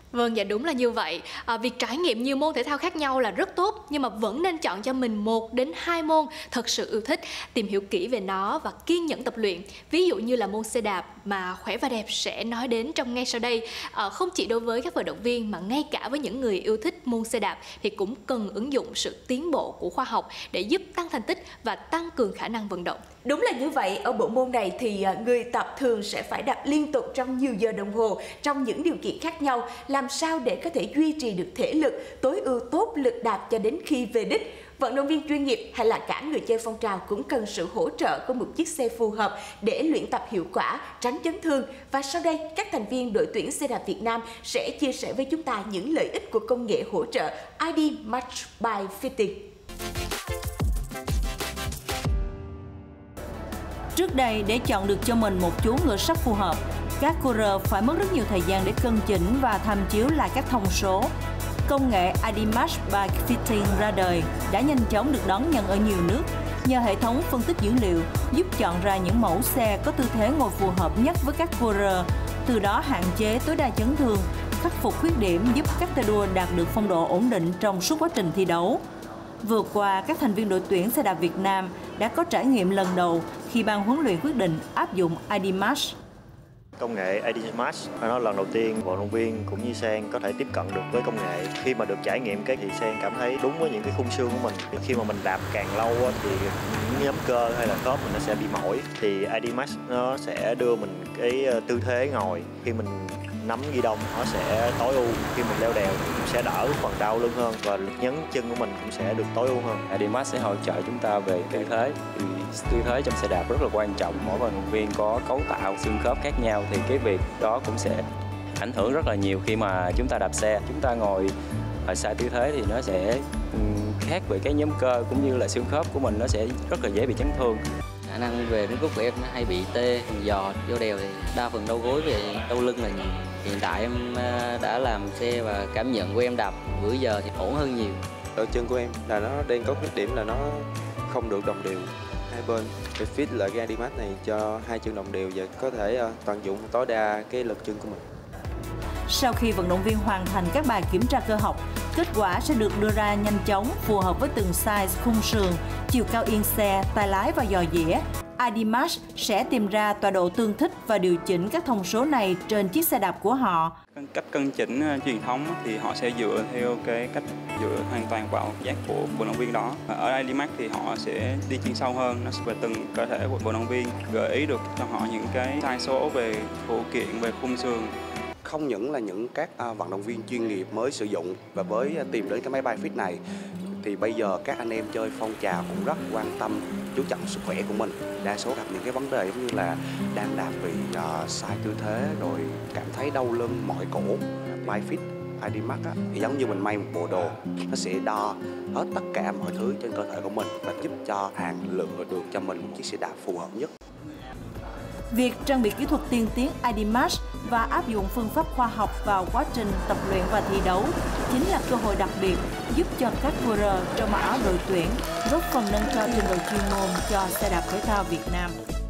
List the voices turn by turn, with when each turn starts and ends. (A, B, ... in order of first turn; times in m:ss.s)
0:00.1-0:23.0 A
0:23.2-0:49.5 B
0:54.0-1:01.1 C
1:01.6-1:18.8 C
1:19.4-1:26.0 C
1:26.8-1:49.8 D
1:49.9-1:58.0 E
1:58.6-2:01.3 E
2:01.8-2:07.6 E
2:08.1-2:18.0 F
2:18.4-2:28.0 G
2:29.1-2:43.8 C
2:44.0-2:57.9 H
2:58.4-3:03.2 I
3:03.8-3:23.7 I
3:25.1-3:38.6 C